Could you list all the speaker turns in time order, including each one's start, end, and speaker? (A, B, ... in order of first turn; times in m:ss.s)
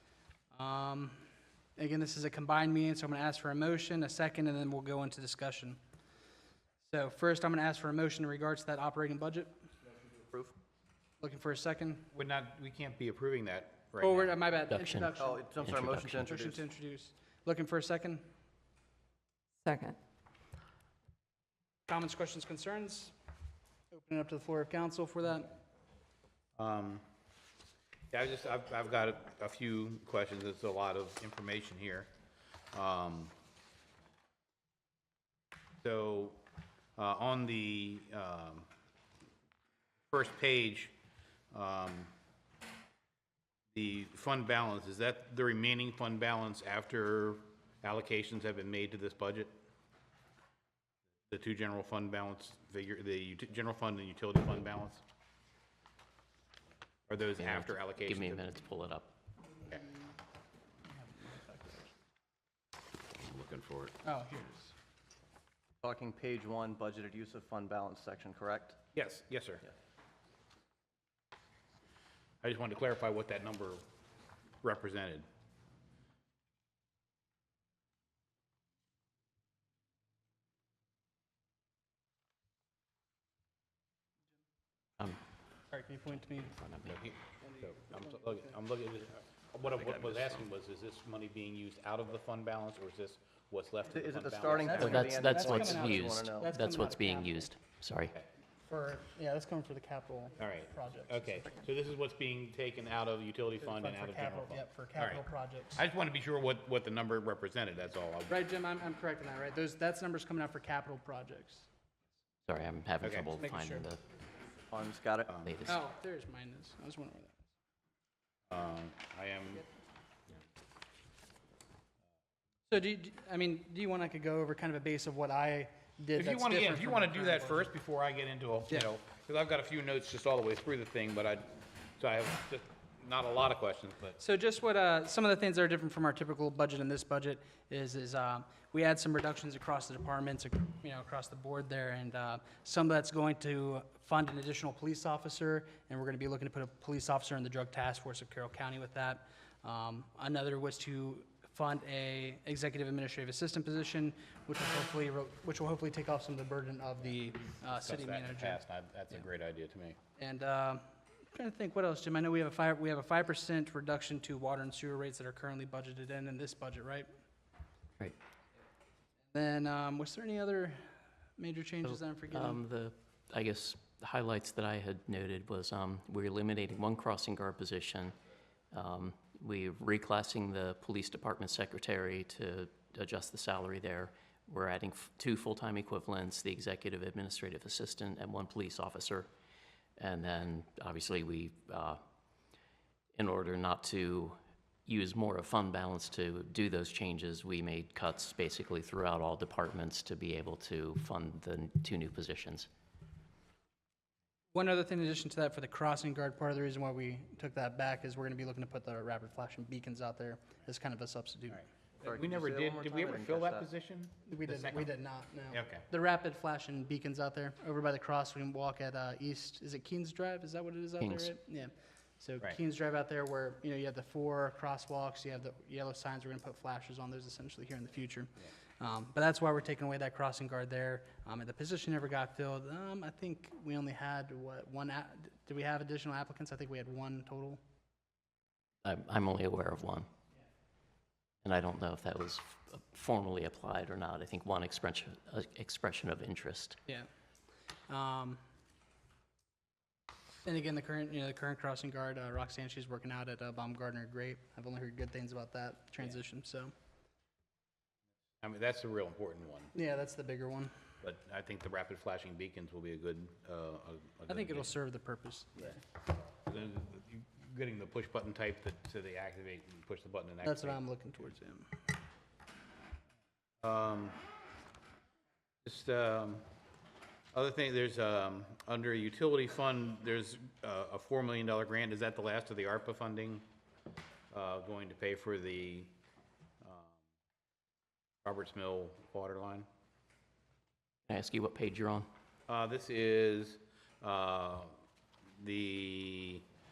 0:00.5-0:01.2 A
0:01.8-0:05.8 A
0:06.8-0:09.6 A
0:10.0-0:10.6 B
0:11.2-0:12.1 A
0:12.1-0:14.4 C
0:14.0-0:18.3 A
0:14.7-0:16.3 D
0:15.2-0:16.6 B
0:21.9-0:23.1 A
0:23.9-0:25.6 A
0:26.6-0:27.0 C
0:28.1-0:32.1 C
0:32.7-0:33.3 C
0:35.8-0:36.4 C
0:37.0-0:38.7 C
0:40.1-0:40.9 C
0:41.5-0:42.1 C
0:43.7-0:49.5 C
0:51.3-0:55.0 C
0:57.1-0:58.5 C
0:57.4-0:59.1 D
1:00.9-1:01.9 A
1:03.3-1:03.8 C
1:04.0-1:04.7 A
1:05.8-1:08.8 B
1:08.9-1:09.6 C
1:12.4-1:13.8 C
1:14.6-1:15.3 C
1:25.7-1:26.5 A
1:26.4-1:27.0 D
1:26.8-1:35.2 C
1:27.4-1:28.4 A
1:33.9-1:36.5 B
1:34.5-1:37.5 A
1:34.8-1:38.1 D
1:38.6-1:41.6 A
1:40.4-1:48.4 C
1:43.6-1:45.8 A
1:48.3-1:51.7 A
1:52.4-1:54.0 D
1:53.0-1:53.3 C
1:53.5-1:53.8 A
1:54.7-1:55.3 B
1:55.3-1:55.6 C
1:55.4-1:55.8 D
1:55.6-1:57.4 A
1:58.5-1:59.6 C
2:02.7-2:07.7 A
2:06.1-2:14.2 C
2:14.2-2:38.6 A
2:37.7-2:40.0 C
2:40.2-2:47.1 A
2:49.3-2:52.6 A
2:51.8-2:58.2 D
2:58.7-3:09.3 D
3:10.0-3:12.0 D
3:13.1-3:22.7 D
3:24.5-3:31.6 A
3:31.5-3:34.9 C
3:32.0-3:33.6 B
3:34.2-3:57.6 A
3:35.5-3:35.8 C
3:41.0-3:41.3 D
3:58.8-4:00.1 D
4:01.4-4:06.8 D
4:07.9-4:08.4 A
4:10.4-4:16.7 A
4:18.4-4:19.7 C
4:19.7-4:20.7 A
4:21.0-4:24.7 C
4:24.3-4:25.8 A
4:26.4-4:30.8 C
4:30.4-4:31.8 A
4:33.6-4:34.2 C
4:35.6-4:36.5 C
4:37.3-4:43.4 C
4:44.3-4:45.9 C
4:46.6-4:47.0 C
4:48.2-4:49.7 C
4:51.1-4:52.1 D
4:52.5-4:54.7 C
4:55.4-4:56.4 C